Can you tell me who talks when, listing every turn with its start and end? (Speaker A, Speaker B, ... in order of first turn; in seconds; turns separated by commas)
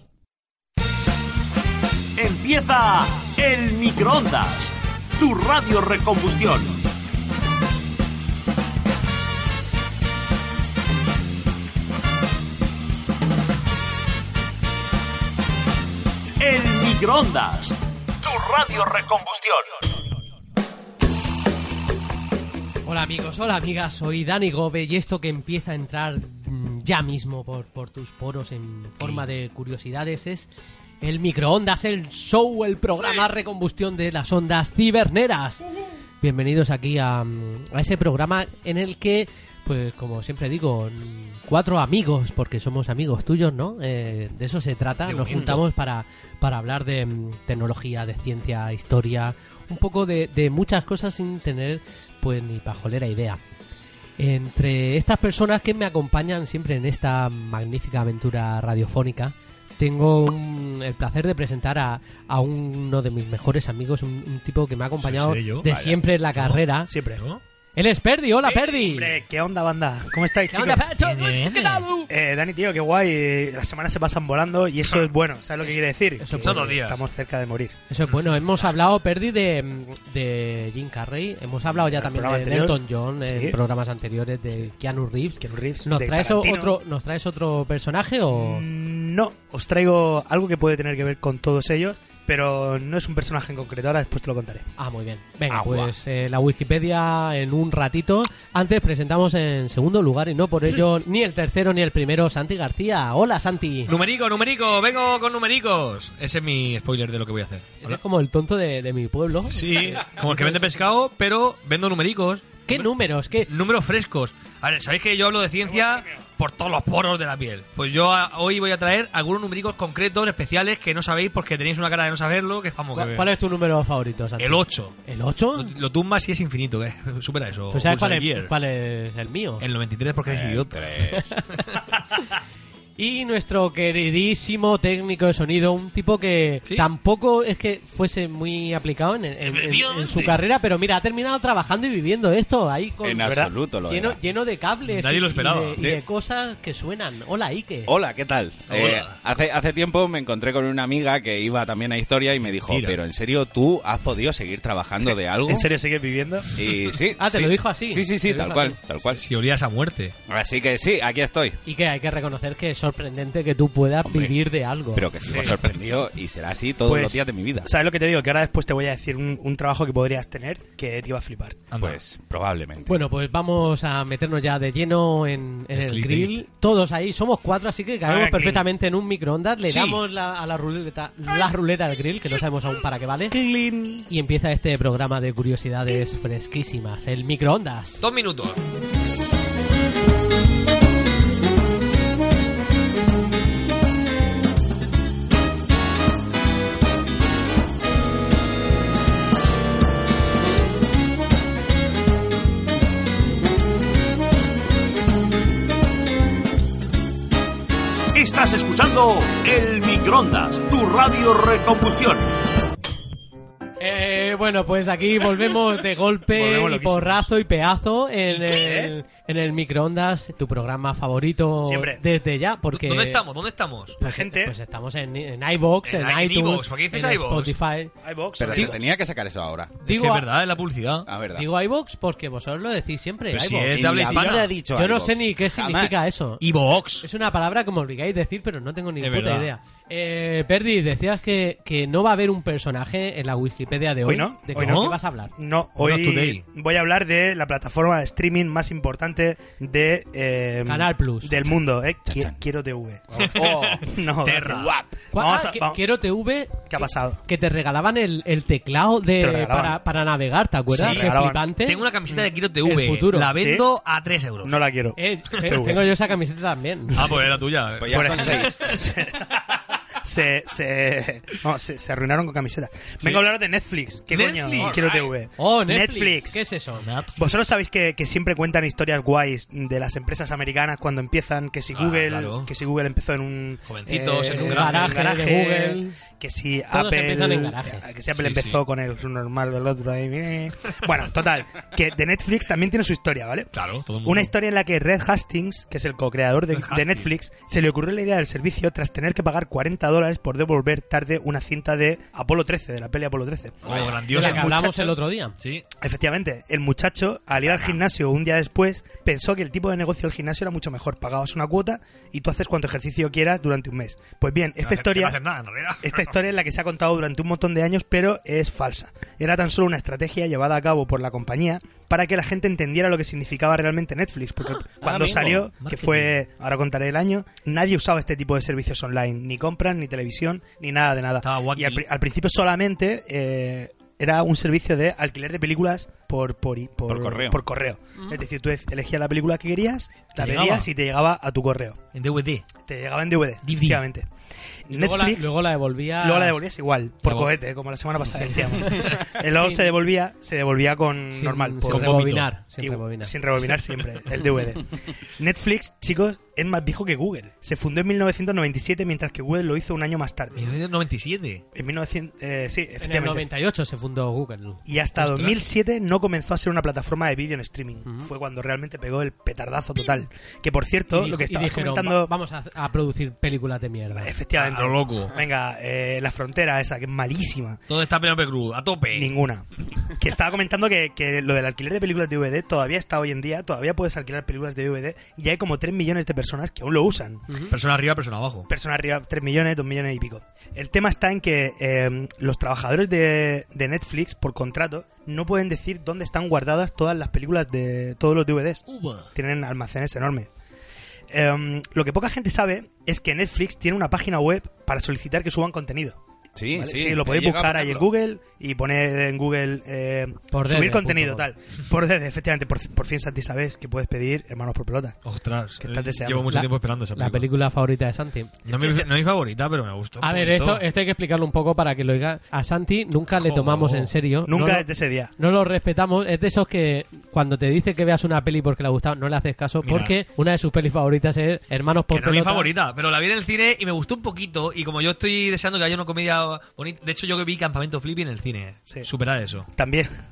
Speaker A: 2.2-6.8, Speaker A: 16.4-19.8, Speaker B: 22.9-30.5, Speaker C: 29.0-29.3, Speaker B: 31.0-35.6, Speaker B: 36.2-53.4, Speaker C: 45.0-45.6, Speaker B: 54.2-66.9, Speaker C: 65.0-65.7, Speaker D: 65.6-66.0, Speaker C: 66.4-66.6, Speaker E: 66.9-67.2, Speaker C: 67.2-67.4, Speaker B: 67.8-69.2, Speaker E: 68.4-70.9, Speaker B: 70.5-72.1, Speaker C: 71.0-71.9, Speaker E: 72.1-77.8, Speaker C: 74.8-75.8, Speaker B: 76.2-76.8, Speaker C: 76.4-77.0, Speaker B: 77.9-88.6, Speaker E: 81.8-83.6, Speaker E: 85.4-86.8, Speaker E: 88.3-94.7, Speaker B: 94.8-104.0, Speaker D: 95.5-95.9, Speaker C: 103.9-108.0, Speaker B: 107.8-110.6, Speaker C: 109.5-112.9, Speaker B: 112.7-113.5, Speaker C: 113.5-123.3, Speaker E: 115.6-116.2, Speaker B: 122.9-125.8, Speaker C: 124.4-125.0, Speaker C: 125.5-128.5, Speaker B: 127.7-129.7, Speaker C: 129.6-131.1, Speaker D: 130.3-131.3, Speaker B: 131.4-131.6, Speaker B: 133.0-147.9, Speaker C: 139.4-140.4, Speaker D: 143.0-144.2, Speaker E: 143.2-143.5, Speaker C: 144.9-145.9, Speaker D: 147.9-155.7, Speaker C: 148.7-149.2, Speaker C: 152.6-153.0, Speaker E: 155.5-156.5, Speaker D: 156.6-159.2, Speaker B: 157.2-158.8, Speaker C: 159.2-160.2, Speaker D: 160.3-161.6, Speaker B: 161.7-165.1, Speaker D: 164.0-164.4, Speaker D: 164.9-167.7, Speaker C: 165.3-165.7, Speaker E: 166.8-171.6, Speaker C: 171.7-172.0, Speaker D: 171.8-173.1, Speaker B: 172.9-183.4, Speaker C: 175.8-176.4, Speaker E: 178.1-178.7, Speaker C: 179.7-180.0, Speaker C: 183.3-183.8, Speaker B: 184.0-188.0, Speaker C: 188.0-188.6, Speaker A: 208.2-212.3, Speaker B: 213.8-223.2, Speaker E: 216.3-217.3, Speaker E: 218.3-218.9, Speaker E: 221.6-222.0, Speaker C: 222.7-224.0, Speaker E: 224.0-224.6, Speaker B: 224.0-227.9, Speaker C: 225.8-227.6, Speaker E: 228.0-228.9, Speaker D: 228.4-229.8, Speaker B: 229.8-230.3, Speaker C: 229.9-231.1, Speaker D: 231.1-231.5, Speaker B: 231.3-236.4, Speaker C: 233.3-234.5, Speaker D: 233.7-236.0, Speaker C: 236.4-237.1, Speaker B: 237.0-245.3, Speaker C: 239.0-239.5, Speaker E: 244.1-255.8, Speaker C: 244.6-245.0, Speaker C: 245.8-246.4, Speaker B: 250.7-251.3, Speaker C: 253.2-254.8, Speaker B: 255.1-261.9, Speaker E: 256.7-257.2, Speaker E: 259.2-259.8, Speaker E: 260.7-261.5, Speaker C: 261.6-264.6, Speaker B: 262.6-263.3, Speaker E: 263.4-263.7, Speaker E: 264.4-265.9, Speaker B: 265.0-267.1, Speaker C: 266.9-268.9, Speaker D: 267.8-268.7, Speaker E: 267.9-276.4, Speaker C: 274.1-275.1, Speaker B: 275.4-276.9, Speaker C: 276.8-277.1, Speaker E: 277.2-293.5, Speaker C: 281.7-282.5, Speaker C: 283.7-285.0, Speaker B: 284.3-286.0, Speaker B: 286.7-287.9, Speaker C: 288.1-288.6, Speaker C: 293.5-294.3, Speaker E: 294.0-305.0, Speaker C: 296.5-297.1, Speaker C: 303.6-304.6, Speaker D: 303.7-303.9, Speaker B: 304.1-305.4, Speaker C: 305.4-305.6, Speaker E: 305.8-315.2, Speaker C: 314.6-316.1, Speaker E: 315.8-341.8, Speaker C: 324.5-326.2, Speaker C: 331.2-331.9, Speaker D: 336.9-337.4, Speaker C: 340.2-340.7, Speaker C: 341.9-342.5, Speaker E: 342.6-344.1, Speaker C: 343.4-343.8, Speaker E: 344.7-345.3, Speaker B: 344.7-346.4, Speaker E: 346.0-352.1, Speaker C: 347.0-347.4, Speaker C: 348.6-349.0, Speaker B: 349.2-349.7, Speaker B: 351.1-353.1, Speaker C: 351.6-352.3, Speaker E: 352.6-360.6, Speaker C: 360.4-361.4, Speaker E: 361.6-363.3, Speaker B: 362.8-364.6, Speaker E: 364.7-372.1, Speaker C: 365.0-365.4, Speaker B: 370.9-374.1, Speaker E: 373.9-377.6, Speaker C: 374.4-375.2, Speaker C: 377.7-379.1, Speaker E: 378.9-387.4, Speaker C: 387.5-388.5, Speaker E: 388.5-400.3, Speaker C: 398.7-399.1, Speaker E: 401.1-406.0, Speaker D: 406.4-407.9, Speaker E: 406.5-415.0, Speaker B: 410.3-411.3, Speaker C: 415.1-417.3, Speaker E: 415.6-416.3, Speaker B: 416.2-418.4, Speaker C: 418.5-420.6, Speaker E: 418.5-418.9, Speaker B: 420.0-432.5, Speaker C: 423.2-423.9, Speaker E: 424.3-425.1, Speaker C: 429.6-429.9, Speaker C: 431.9-439.5, Speaker E: 439.5-439.9